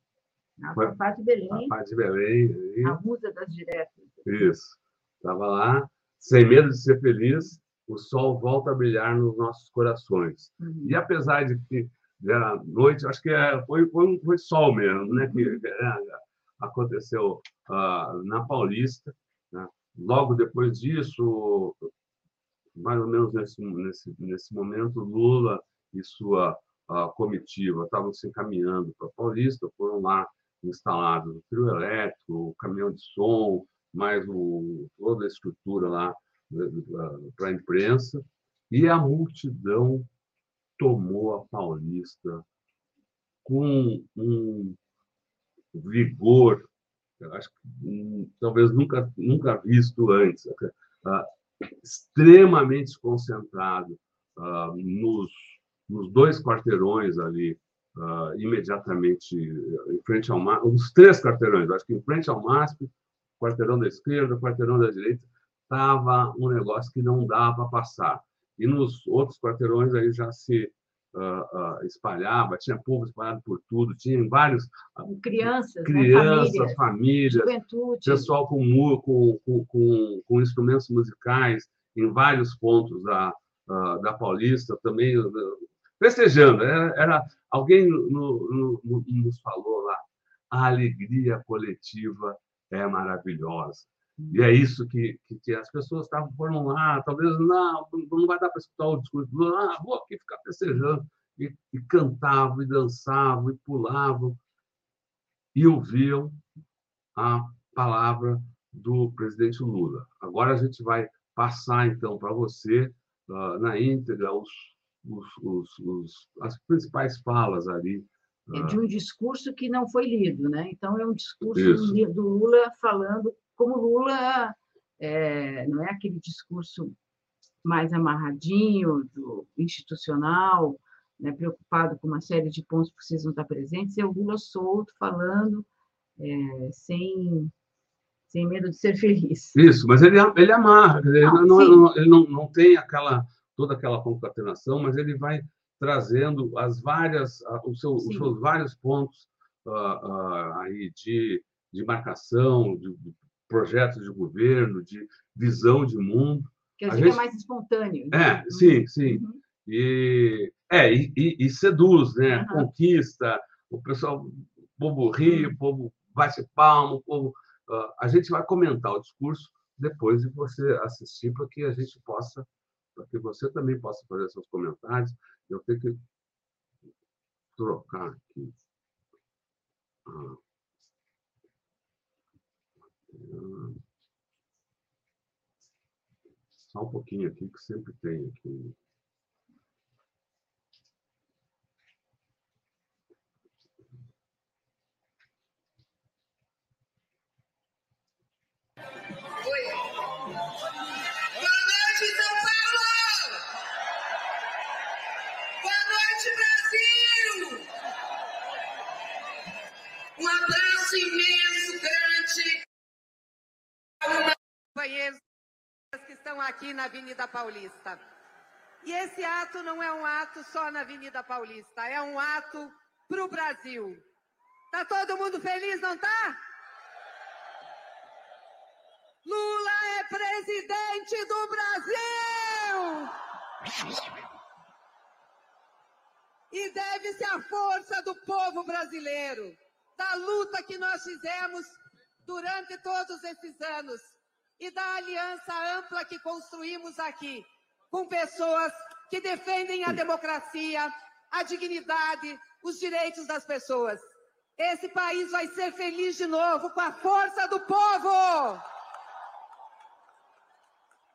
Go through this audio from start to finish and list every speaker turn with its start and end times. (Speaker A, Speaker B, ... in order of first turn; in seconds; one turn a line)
Speaker A: 0.6-1.7
Speaker B: 1.5-3.0
Speaker A: 2.8-4.3
Speaker B: 4.3-21.9
Speaker A: 10.6-10.9
Speaker A: 15.3-15.6
Speaker B: 22.8-40.1
Speaker B: 40.8-42.4
Speaker B: 43.5-44.8
Speaker B: 45.7-46.7
Speaker B: 47.2-51.3
Speaker B: 51.8-55.3
Speaker B: 55.9-77.5
Speaker A: 75.0-78.3
Speaker B: 78.0-104.4
Speaker B: 105.5-106.4
Speaker B: 107.2-118.8
Speaker A: 118.5-126.9
Speaker B: 121.5-122.0
Speaker A: 127.6-135.7
Speaker A: 136.2-137.5
Speaker A: 138.3-139.6
Speaker B: 139.6-157.2
Speaker A: 141.2-141.8
Speaker A: 148.0-148.3
Speaker A: 156.8-159.4
Speaker B: 158.1-176.0
Speaker A: 162.3-162.7
Speaker A: 165.3-165.5
Speaker B: 177.6-178.5
Speaker B: 180.1-180.4
Speaker B: 183.1-183.8
Speaker B: 186.7-188.8
Speaker C: 201.8-202.7
Speaker C: 205.7-207.6
Speaker C: 210.2-212.4
Speaker C: 214.1-215.2
Speaker C: 215.9-218.0
Speaker C: 218.8-224.0
Speaker C: 224.7-226.4
Speaker C: 229.2-233.1
Speaker C: 236.5-254.0
Speaker C: 254.6-258.6